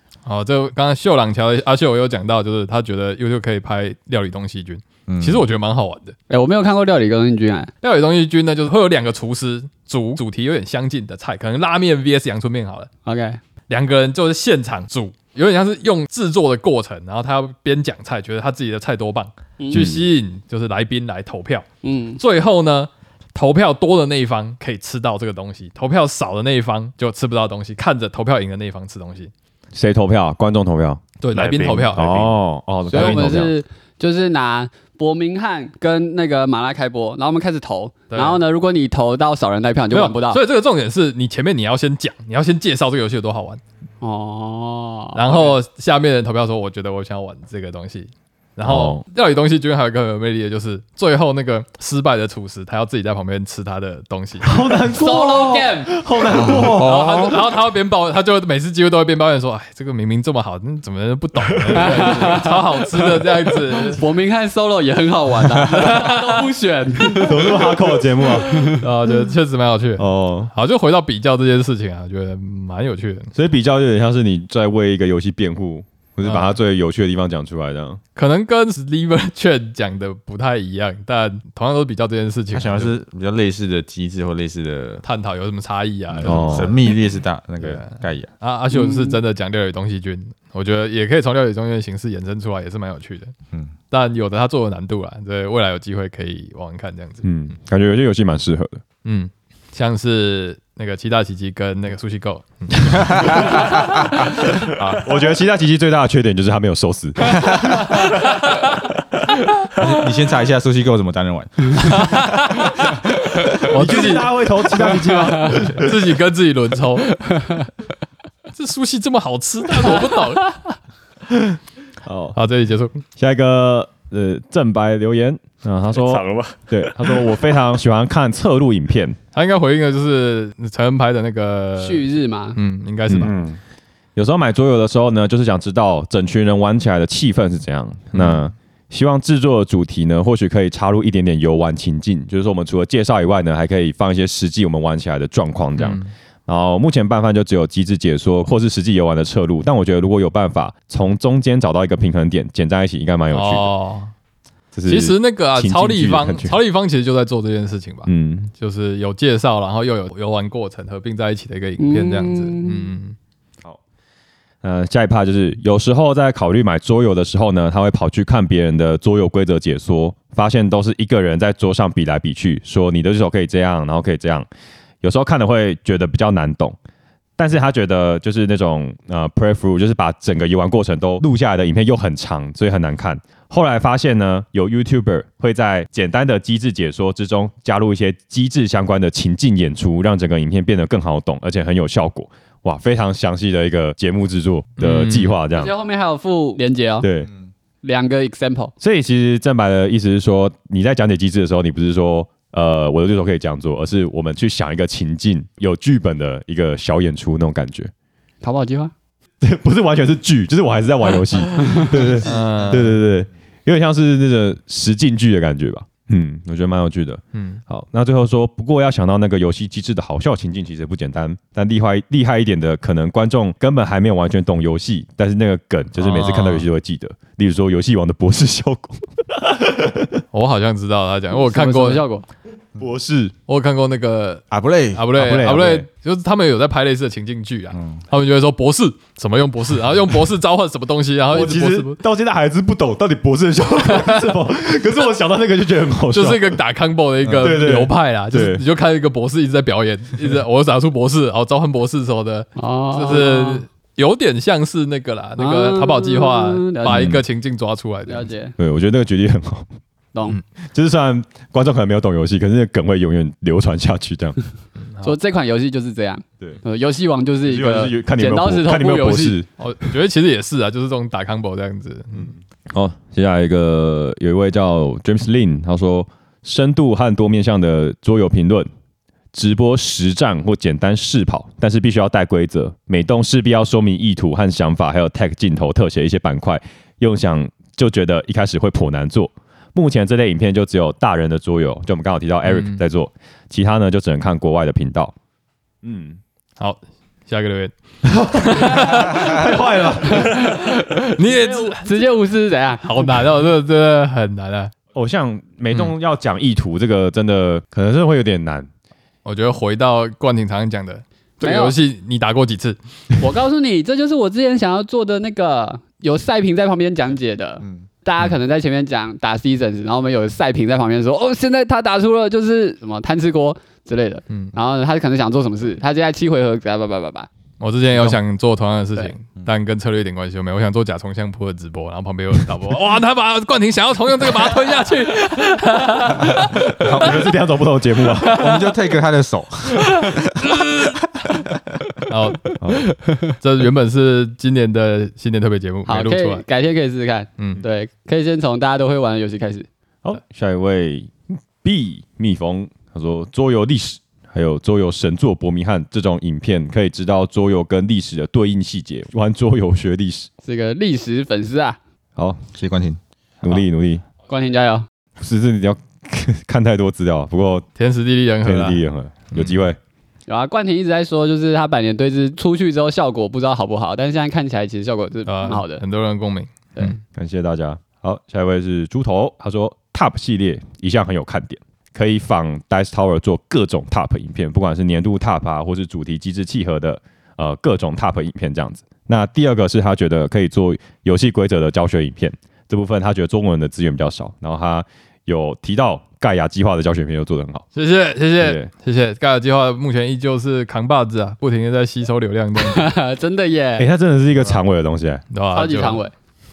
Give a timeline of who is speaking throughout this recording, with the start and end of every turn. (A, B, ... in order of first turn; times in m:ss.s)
0:00.2-0:06.2 A
0:05.1-0:05.4 B
0:06.3-0:07.7 C
0:07.8-0:12.9 A
0:13.0-0:13.4 C
0:13.7-0:21.6 A
0:19.6-0:19.8 C
0:19.7-0:20.0 D
0:21.8-0:22.2 C
0:22.2-0:29.3 A
0:29.7-0:31.0 D
0:31.2-0:32.1 A
0:31.3-0:32.4 E
0:31.9-0:33.5 D
0:32.9-0:40.4 C
0:32.9-0:33.4 A
0:38.1-0:38.4 A
0:39.9-0:43.6 A
0:44.0-0:45.6 C
0:45.1-0:54.6 A
0:48.6-0:49.0 D
0:54.4-0:57.4 D
0:54.9-0:56.0 C
0:56.4-0:57.4 B
0:56.8-1:04.0 A
1:01.8-1:02.6 C
1:03.7-1:08.8 C
1:05.7-1:06.4 A
1:07.2-1:08.8 D
1:08.7-1:13.3 A
1:10.0-1:10.5 D
1:13.3-1:18.0 D
1:16.2-1:16.6 A
1:18.1-1:22.9 A
1:22.5-1:25.0 B
1:25.0-1:26.9 A
1:26.1-1:28.3 B
1:26.2-1:26.8 D
1:27.6-1:33.3 A
1:28.7-1:29.2 C
1:33.9-1:37.2 A
1:37.2-1:38.8 D
1:39.0-1:43.8 A
1:43.0-1:45.0 B
1:45.0-1:47.8 D
1:47.3-1:47.8 B
1:47.9-1:48.7 A
1:49.8-1:52.3 B
1:51.8-1:57.6 A
1:53.7-1:56.0 D
1:58.5-2:00.6 A
2:01.3-2:02.4 D
2:02.3-2:03.0 A
2:03.2-2:09.2 D
2:05.9-2:07.2 E
2:09.3-2:13.3 A
2:11.8-2:12.6 C
2:13.2-2:13.6 E
2:14.2-2:33.7 D
2:18.1-2:18.5 A
2:25.8-2:26.1 A
2:33.3-2:34.1 A
2:34.7-2:36.6 D
2:34.8-2:43.2 A
2:38.0-2:38.5 D
2:41.8-2:42.9 C
2:44.6-2:54.5 D
2:55.0-2:56.8 D
2:57.4-3:15.7 D
3:14.8-3:15.4 A
3:15.5-3:17.1 C
3:17.0-3:17.3 D
3:17.8-3:18.7 C
3:18.8-3:27.9 D
3:28.4-3:28.9 C
3:29.4-3:50.2 D
3:32.2-3:33.0 A
3:37.3-3:37.6 A
3:46.0-3:46.7 A
3:50.3-3:52.0 A
3:51.3-3:52.2 C
3:52.8-3:53.3 D
3:53.5-4:02.0 A
3:54.5-3:55.0 B
3:55.1-3:55.9 D
3:57.7-3:58.0 B
4:01.3-4:06.6 D
4:03.8-4:04.4 A
4:06.1-4:18.3 A
4:07.2-4:08.6 D
4:12.6-4:13.6 C
4:15.4-4:17.1 C
4:16.8-4:17.2 D
4:18.1-4:18.5 C
4:18.6-4:19.7 D
4:20.1-4:20.4 C
4:20.7-4:24.4 D
4:24.8-4:25.2 A
4:25.0-4:29.4 C
4:27.4-4:29.5 D
4:29.6-4:32.3 A
4:32.1-4:38.7 D
4:39.3-4:55.1 D
4:52.4-4:52.8 A
4:55.8-4:56.2 D
4:56.6-4:59.5 A
4:58.0-5:00.5 D
5:00.1-5:00.5 A
5:00.1-5:03.1 C
5:01.1-5:02.1 A
5:02.8-5:04.7 A
5:04.9-5:08.7 D
5:09.2-5:12.8 A
5:11.4-5:11.8 C
5:13.2-5:27.3 C
5:24.3-5:24.5 A
5:27.6-5:37.1 A
5:36.8-5:37.2 B
5:36.9-5:38.4 D
5:38.2-5:38.6 A
5:38.3-5:41.6 B
5:39.7-5:41.0 A
5:42.1-5:42.6 A
5:42.6-5:42.9 D
5:43.2-5:46.4 A
5:45.8-5:49.7 C
5:47.4-5:47.6 A
5:50.0-6:00.3 D
6:00.4-6:01.8 C
6:02.2-6:02.4 D
6:02.5-6:03.0 B
6:03.4-6:04.0 D
6:04.3-6:04.9 C
6:05.2-6:07.6 D
6:07.8-6:08.8 A
6:08.4-6:09.8 D
6:10.3-6:15.8 C
6:15.3-6:16.9 A
6:16.8-6:37.6 D
6:37.7-6:42.9 A
6:38.4-6:38.7 D
6:42.6-6:43.9 C
6:43.8-6:45.2 D
6:45.3-6:46.0 A
6:45.5-6:46.1 C